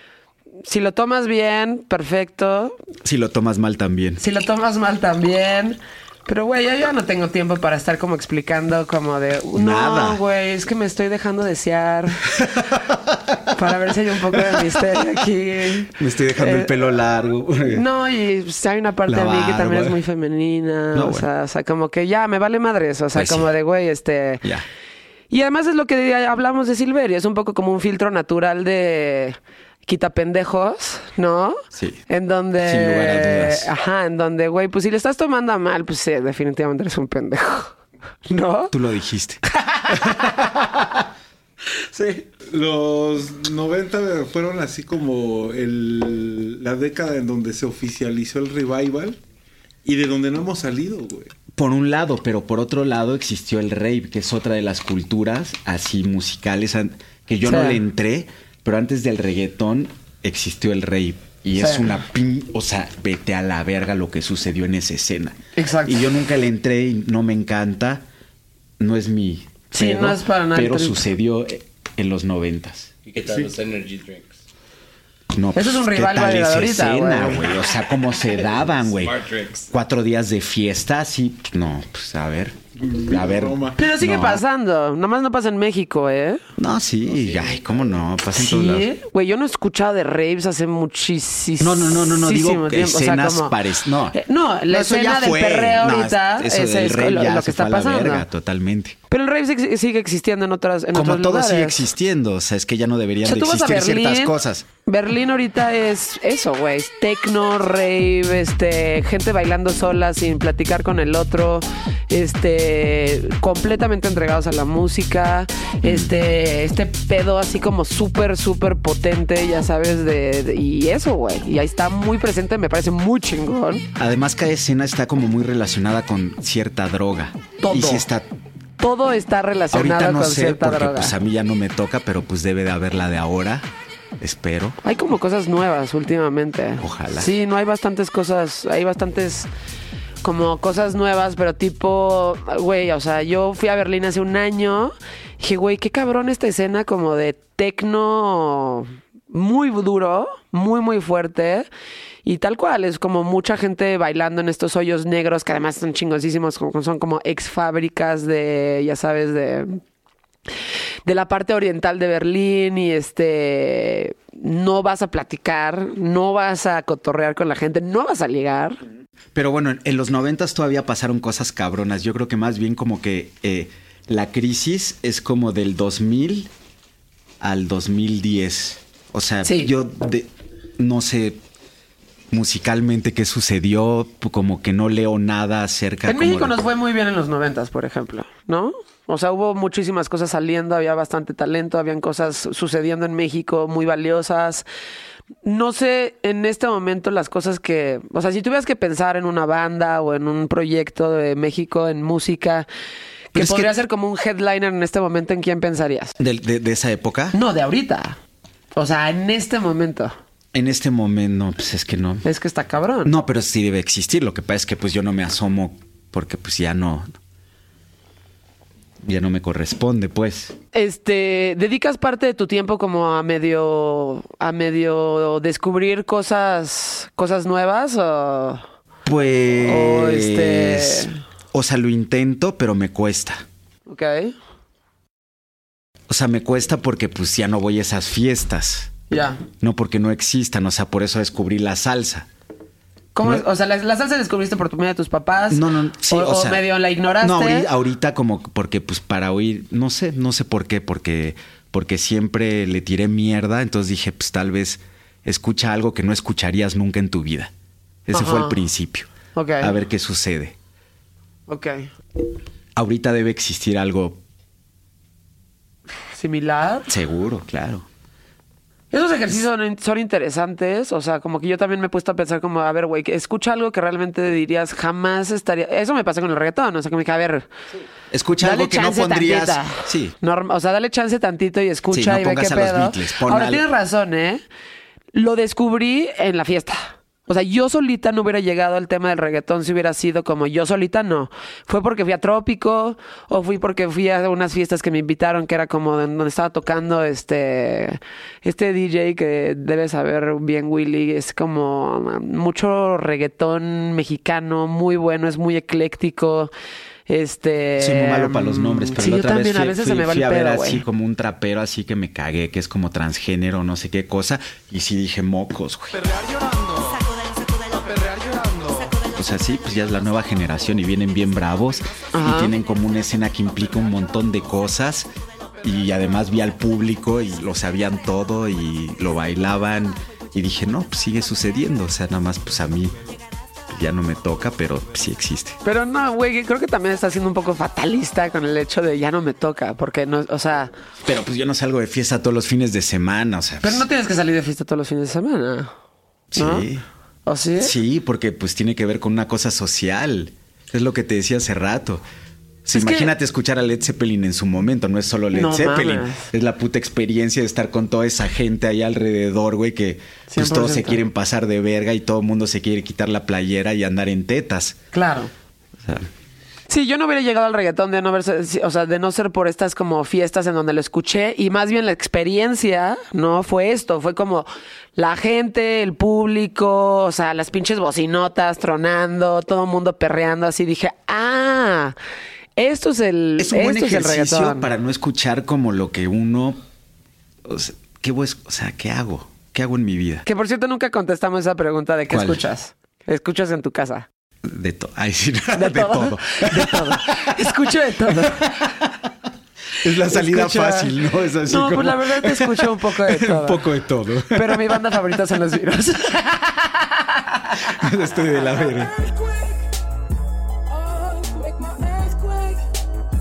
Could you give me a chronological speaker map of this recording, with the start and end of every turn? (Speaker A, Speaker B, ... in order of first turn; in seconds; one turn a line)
Speaker A: 0.6-2.8
Speaker B: 3.0-4.2
Speaker A: 4.2-12.2
Speaker B: 9.5-10.2
Speaker B: 12.3-13.5
Speaker A: 13.5-16.7
Speaker B: 14.3-14.8
Speaker B: 15.9-17.8
Speaker A: 17.7-24.4
Speaker B: 19.1-20.0
Speaker B: 20.9-21.3
Speaker B: 23.1-23.5
Speaker A: 25.3-37.7
Speaker B: 31.7-32.0
Speaker B: 32.6-33.7
Speaker A: 38.3-38.7
Speaker B: 38.7-40.8
Speaker A: 39.5-40.5
Speaker A: 41.9-42.3
Speaker C: 42.5-49.2
Speaker C: 49.8-51.3
Speaker B: 51.5-68.0
Speaker A: 57.4-57.8
Speaker A: 61.6-61.9
Speaker A: 65.5-66.1
Speaker B: 68.8-72.9
Speaker A: 69.7-71.0
Speaker D: 73.0-74.4
Speaker B: 75.3-84.4
Speaker A: 75.5-77.5
Speaker D: 78.9-79.7
Speaker C: 82.8-83.8
Speaker A: 83.8-86.4
Speaker B: 86.6-88.9
Speaker A: 88.3-93.5
Speaker B: 91.6-99.0
Speaker A: 94.1-98.2
Speaker A: 99.1-101.9
Speaker B: 100.9-104.7
Speaker A: 103.2-123.9
Speaker B: 115.8-116.1
Speaker B: 124.0-128.3
Speaker A: 127.6-128.0
Speaker A: 128.8-131.1
Speaker B: 129.7-133.7
Speaker B: 134.2-134.8
Speaker A: 134.8-139.5
Speaker B: 136.8-137.3
Speaker A: 140.2-151.7
Speaker A: 152.2-159.8
Speaker A: 161.1-168.8
Speaker B: 169.3-176.5
Speaker B: 177.4-181.4
Speaker A: 179.4-179.7
Speaker B: 182.3-186.6
Speaker A: 186.1-194.7
Speaker A: 195.4-202.7
Speaker A: 203.3-206.1
Speaker B: 203.3-203.7
Speaker B: 206.2-207.4
Speaker A: 207.3-208.2
Speaker A: 208.7-210.2
Speaker B: 210.5-212.2
Speaker A: 212.2-213.2
Speaker B: 213.0-217.1
Speaker B: 219.0-220.5
Speaker A: 220.7-228.6
Speaker B: 229.1-233.4
Speaker A: 229.6-231.1
Speaker A: 233.9-234.3
Speaker B: 236.1-239.0
Speaker A: 239.1-239.4
Speaker B: 239.5-242.3
Speaker A: 243.1-247.7
Speaker B: 245.5-246.6
Speaker B: 247.2-257.5
Speaker B: 258.1-259.1
Speaker A: 258.1-258.6
Speaker A: 259.3-259.7
Speaker B: 259.6-260.5
Speaker A: 261.5-261.9
Speaker B: 262.8-264.2
Speaker A: 266.1-266.9
Speaker B: 266.9-267.9
Speaker A: 268.9-277.5
Speaker B: 278.1-280.1
Speaker A: 278.4-284.4
Speaker B: 281.9-283.6
Speaker A: 285.1-306.5
Speaker A: 307.1-310.8
Speaker B: 307.8-316.3
Speaker B: 318.1-325.1
Speaker A: 322.1-322.5
Speaker B: 325.6-333.0
Speaker B: 333.7-335.6
Speaker A: 335.6-340.7
Speaker B: 341.0-343.9
Speaker A: 343.6-345.7
Speaker B: 346.3-346.8
Speaker A: 346.4-346.7
Speaker A: 347.2-347.7
Speaker B: 347.6-352.0
Speaker B: 352.6-364.8
Speaker A: 352.7-353.1
Speaker A: 355.3-356.3
Speaker A: 360.3-361.0
Speaker A: 364.9-365.3
Speaker B: 365.8-366.1
Speaker A: 366.7-381.9
Speaker A: 382.6-384.7
Speaker B: 383.4-386.6
Speaker B: 387.4-390.2
Speaker A: 390.2-394.1
Speaker B: 392.1-392.4
Speaker B: 394.4-397.4
Speaker A: 395.6-398.6
Speaker B: 398.1-398.9
Speaker B: 399.8-405.0
Speaker A: 400.1-400.9
Speaker A: 401.4-403.6
Speaker A: 404.3-407.6
Speaker B: 407.6-408.9
Speaker A: 410.9-412.6